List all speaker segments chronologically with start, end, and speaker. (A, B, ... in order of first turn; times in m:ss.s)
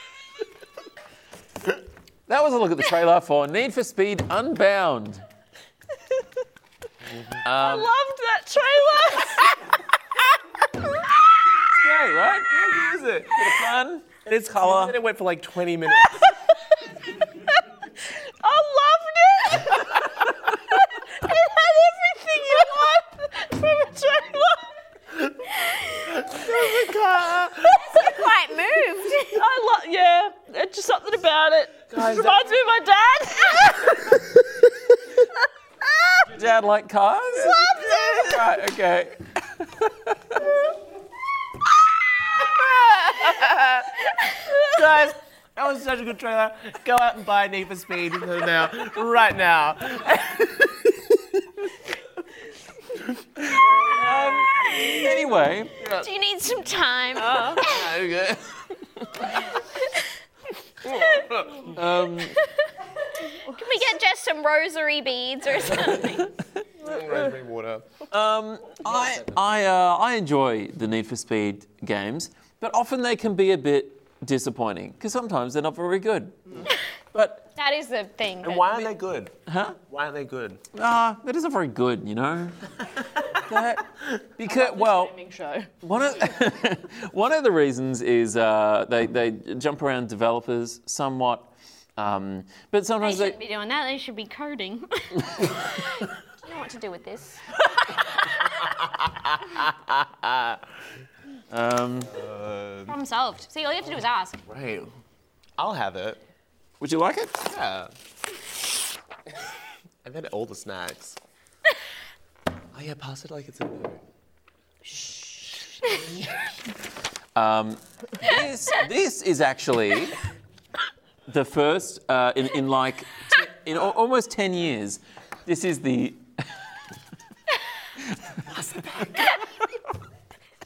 0:02.3-0:05.2 A
0:07.4-0:07.9 A
0:07.6-0:09.6 B
0:11.7-0:12.7 A
0:12.5-0:13.6 C
0:13.4-0:15.0 A
0:14.2-0:16.3 C
0:18.4-0:20.1 B
0:21.0-0:24.7 B
0:26.1-0:28.1 C
0:27.8-0:29.4 D
0:29.4-0:33.8 B
0:31.9-0:32.6 C
0:36.3-0:40.2 A
0:37.5-0:38.4 C
0:42.4-0:51.0 C
0:53.5-0:54.4 C
0:54.0-0:55.8 A
0:54.7-0:55.0 D
0:55.8-0:56.1 C
0:56.0-0:57.9 D
0:57.2-0:57.7 B
0:57.6-0:59.3 C
1:00.8-1:01.8 C
1:01.7-1:02.4 A
1:02.3-1:02.7 D
1:03.2-1:06.3 D
1:06.8-1:08.0 C
1:08.1-1:17.5 A
1:08.8-1:09.4 C
1:17.6-1:18.8 D
1:18.4-1:19.3 C
1:19.5-1:19.8 A
1:19.9-1:20.6 C
1:20.7-1:22.7 A
1:23.3-1:25.1 A
1:24.4-1:25.7 B
1:25.8-1:33.4 A
1:33.0-1:37.5 D
1:38.6-1:40.6 C
1:41.5-1:42.2 A
1:42.1-1:43.0 C
1:42.9-1:44.4 D
1:44.5-1:44.9 C
1:45.6-1:46.2 C
1:46.8-1:47.5 A
1:47.5-1:47.9 C
1:50.0-1:51.2 C
1:52.7-1:54.0 C
1:54.9-1:55.6 B
1:57.4-2:00.2 A
2:01.3-2:06.2 A